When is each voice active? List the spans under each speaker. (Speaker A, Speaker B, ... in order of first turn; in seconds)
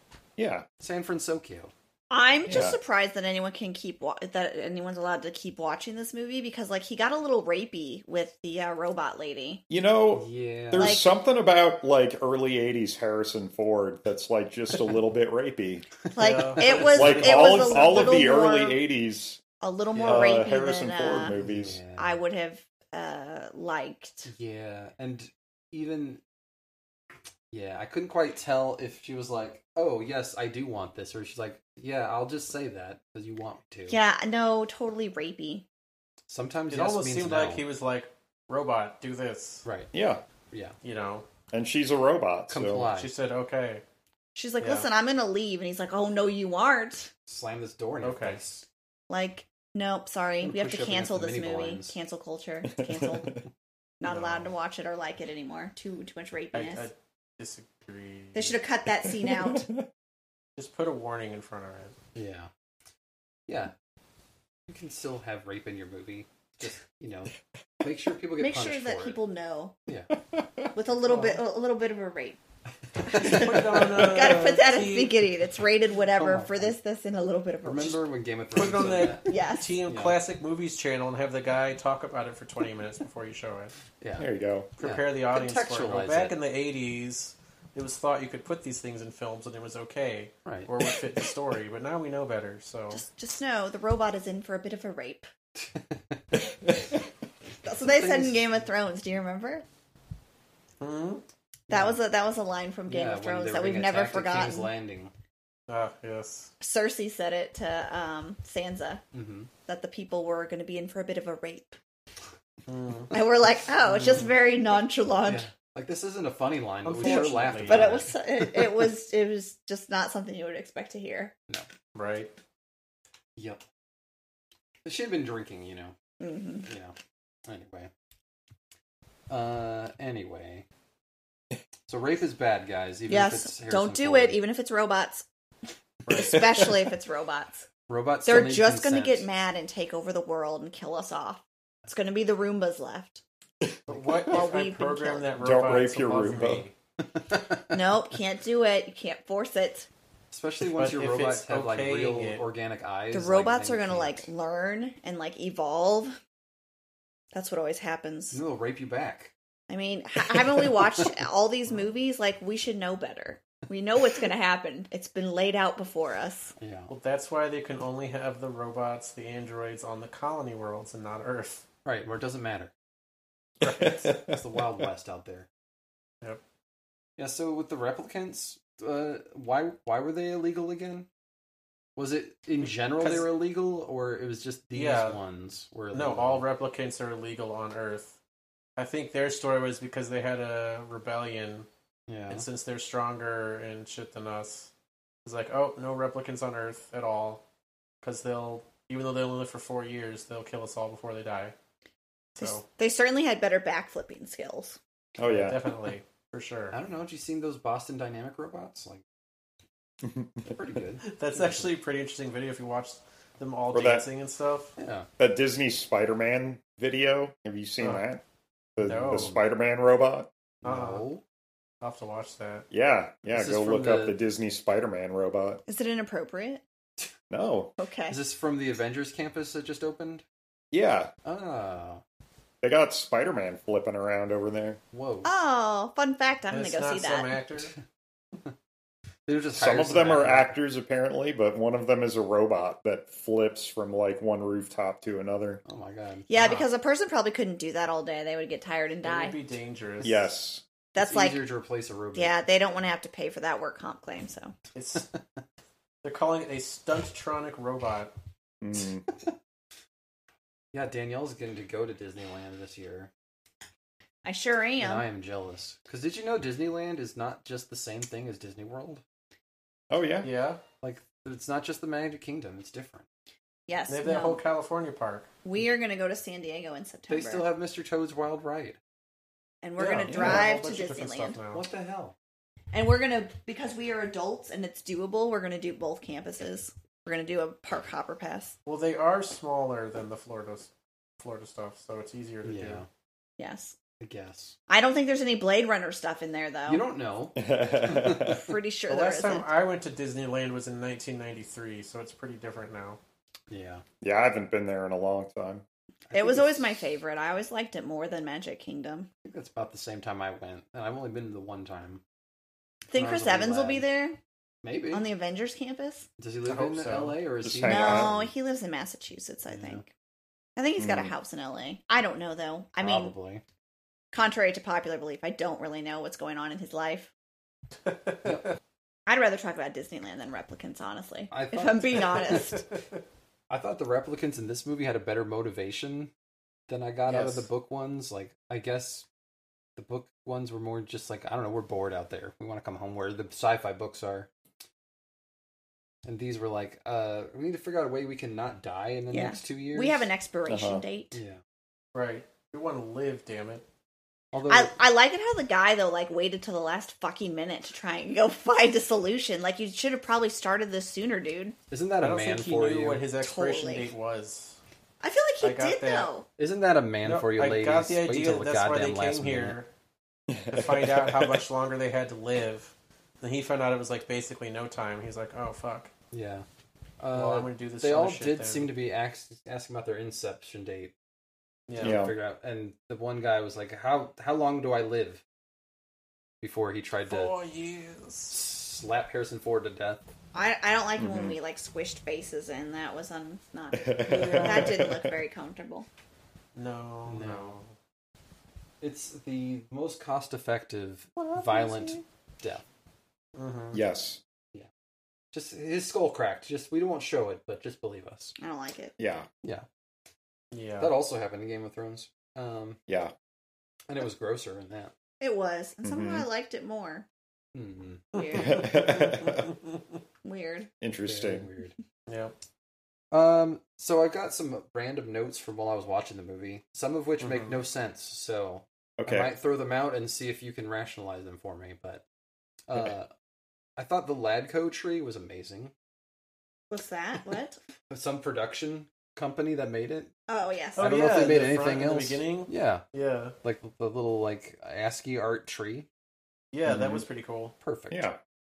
Speaker A: 0.4-0.7, 2.5-2.8, 9.7-15.9, 16.7-19.4, 20.0-21.8, 39.9-40.2, 41.5-42.9, 52.8-53.4, 59.0-59.9, 70.3-70.7, 84.2-84.7, 145.4-146.6, 173.7-174.4, 205.2-205.6, 210.0-210.5, 213.7-214.0, 215.2-218.2, 218.8-220.3, 222.7-225.6, 227.3-227.7, 230.7-231.1, 232.6-234.8, 239.5-245.6, 250.0-250.6, 258.6-259.1, 269.9-270.3, 280.1-280.4, 297.4-298.5, 304.0-305.6, 317.4-318.3, 320.8-321.1, 350.5-350.8, 370.3-371.4, 381.8-382.1, 391.0-391.4, 393.7-395.1, 403.7-404.2, 409.0-409.3, 412.9-413.1, 415.8-416.2, 418.3-419.5, 420.8-421.4, 429.0-429.3, 446.7-447.0, 447.9-448.2
Speaker B: 0.8-1.7, 10.1-11.0, 19.9-20.2, 21.3-22.2, 24.3-26.2, 27.5-34.0, 36.3-37.6, 39.6-39.9, 42.5-43.1, 47.3-48.6, 50.4-52.0, 62.1-62.5, 63.5-63.7, 64.7-69.2, 69.9-70.1, 73.0-73.9, 76.1-76.7, 77.6-80.2, 84.0-86.3, 90.4-90.7, 95.7-96.4, 97.8-98.4, 102.9-105.1, 109.1-109.5, 115.2-118.9, 123.4-123.6, 124.8-125.9, 126.6-127.9, 129.3-130.6, 131.9-134.4, 137.9-139.2, 147.2-147.6, 150.3-154.2, 158.3-159.3, 160.3-161.1, 166.6-166.9, 171.8-172.7, 174.2-175.5, 177.2-181.1, 181.9-186.4, 192.1-192.4, 206.7-209.0, 210.4-211.7, 214.8-215.1, 218.9-219.4, 220.6-221.2, 223.3-224.2, 228.1-230.2, 231.2-232.0, 234.9-235.3, 239.3-240.5, 245.6-246.3, 251.0-252.3, 255.1-255.4, 260.7-263.1, 264.8-269.0, 270.8-273.0, 277.1-278.8, 281.5-282.1, 292.4-292.9, 294.0-294.5, 296.7-298.4, 303.5-303.8, 306.1-306.8, 309.2-312.0, 312.9-313.8, 314.6-315.1, 316.2-318.2, 319.5-319.8, 322.8-323.4, 328.2-328.5, 331.3-332.6, 333.5-336.1, 336.7-339.0, 339.8-344.3, 346.0-350.1, 351.1-351.4, 354.3-354.7, 361.7-363.0, 366.4-369.6, 376.1-376.4, 377.0-380.9, 381.8-385.2, 386.4-387.4, 388.3-390.0, 397.1-397.5, 398.8-402.6, 405.3-408.3, 410.8-412.8, 413.9-414.9, 417.5-418.1, 421.0-421.7, 423.1-432.0, 432.7-433.1, 433.8-435.7, 437.9-440.1, 440.8-442.8, 443.4-445.9, 447.6-448.1
Speaker C: 2.1-9.6, 10.8-11.1, 16.1-18.8, 19.6-21.4, 21.9-24.3, 33.9-35.6, 44.3-47.1, 49.1-53.4, 54.0-56.9, 58.3-59.7, 68.4-69.7, 70.7-72.4, 73.2-78.0, 79.2-79.8, 92.9-95.3, 97.6-99.6, 101.7-104.7, 106.6-109.0, 109.7-111.8, 113.1-115.5, 117.0-121.3, 126.2-126.7, 133.1-135.2, 136.1-137.7, 138.2-143.2, 144.2-145.3, 147.7-149.9, 153.1-156.2, 157.3-158.4, 159.7-166.5, 202.4-204.8, 225.7-226.6, 227.8-228.2, 235.2-237.3, 246.3-249.3, 250.9-251.4, 252.1-254.5, 264.2-265.0, 273.7-274.4, 275.4-277.4, 279.6-281.4, 282.7-288.5, 293.4-293.8, 294.7-296.8, 298.2-299.5, 306.1-309.1, 312.9-314.2, 314.9-316.1, 317.6-319.9, 320.6-323.1, 324.1-327.1, 329.1-332.7, 349.1-351.2, 354.5-361.6, 363.2-363.9, 365.0-366.2, 390.3-395.9, 401.4-401.9, 408.4-409.0, 415.2-417.1, 418.1-419.0, 420.2-420.7, 436.7-437.6, 440.3-440.9
Speaker D: 16.2-18.0, 36.7-39.6, 40.8-41.2, 42.9-43.8, 44.6-44.9, 48.0-48.4, 54.1-54.5, 56.5-58.6, 60.6-62.0, 71.1-71.4, 73.1-75.1, 78.5-83.7, 84.8-93.0, 100.8-101.2, 105.7-106.5, 112.7-113.1, 116.8-117.9, 121.9-122.3, 136.1-136.3, 143.9-146.7, 150.7-152.4, 166.9-171.6, 173.6-174.2, 182.6-183.3, 184.7-185.2, 185.9-188.2, 188.8-191.7, 192.3-194.7, 195.2-197.4, 198.0-201.5, 202.3-202.6, 205.2-206.8, 211.0-214.8, 218.8-219.3, 220.6-221.0, 221.8-222.7, 236.5-237.7, 246.3-246.7, 249.0-250.3, 254.7-255.1, 256.0-258.1, 270.2-270.6, 273.9-275.3, 279.8-281.6, 288.6-292.8, 298.9-303.0, 316.4-317.2, 327.9-328.4, 337.1-337.5, 351.9-353.6, 362.0-364.6, 365.4-366.1, 367.0-369.7, 370.5-375.9, 377.1-378.7, 381.7-382.0, 387.1-388.3, 394.1-394.7, 396.6-397.7, 403.4-403.8, 410.5-410.9, 418.1-419.8, 422.1-422.3, 427.2-427.6, 440.8-443.4, 446.5-447.5